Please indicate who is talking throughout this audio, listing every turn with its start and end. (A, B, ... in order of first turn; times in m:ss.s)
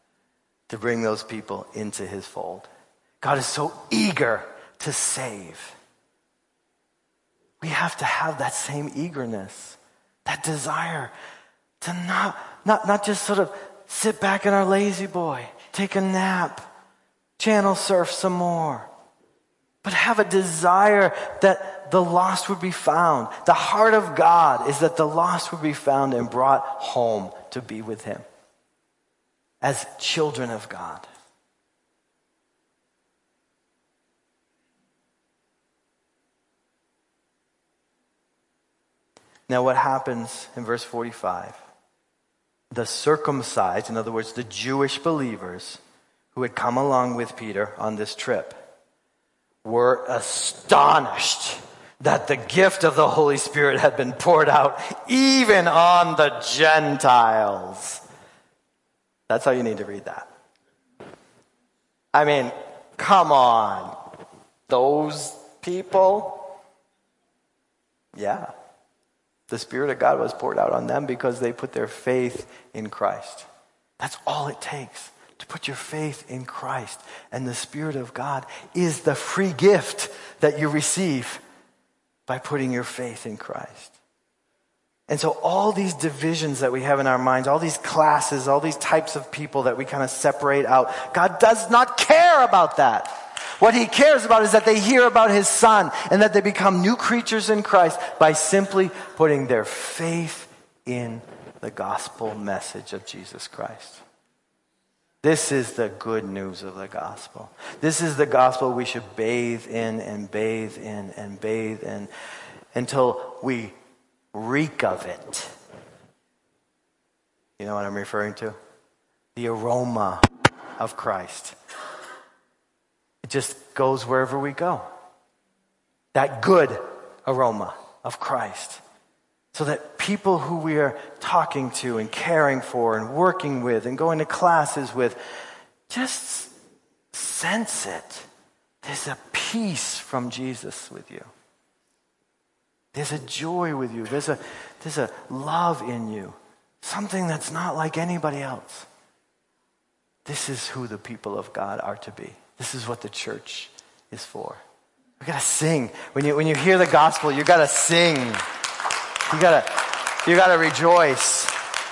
0:00.7-0:02.7 A
0:03.2-0:05.8 A
0:07.6-0:11.1 A
0:11.8-0:16.7 A
0:17.4-0:18.9 A
0:19.8-0:28.2 A
0:29.6-0:31.1 A
0:39.5-0:41.6 A
0:42.7-0:45.8 A
0:46.3-0:48.6 A
0:49.6-0:58.0 A
0:59.3-1:00.3 A
1:02.1-1:04.0 A
1:04.7-1:06.5 A
1:08.2-1:08.5 A
1:09.5-1:13.5 A
1:14.0-1:21.4 A
1:22.3-1:23.9 A
1:25.1-1:44.0 A
1:45.2-1:52.1 A
1:52.7-1:53.7 A
1:54.3-1:55.5 A
1:57.6-1:58.6 A
1:59.3-2:00.2 A
2:00.8-2:01.6 A
2:03.2-2:04.8 A
2:06.1-2:08.8 A
2:09.5-2:15.2 A
2:15.9-2:16.5 A
2:17.1-2:18.3 A
2:18.8-2:21.3 A
2:22.9-2:28.9 A
2:30.2-2:34.6 A
2:35.2-2:38.4 A
2:39.3-2:41.5 A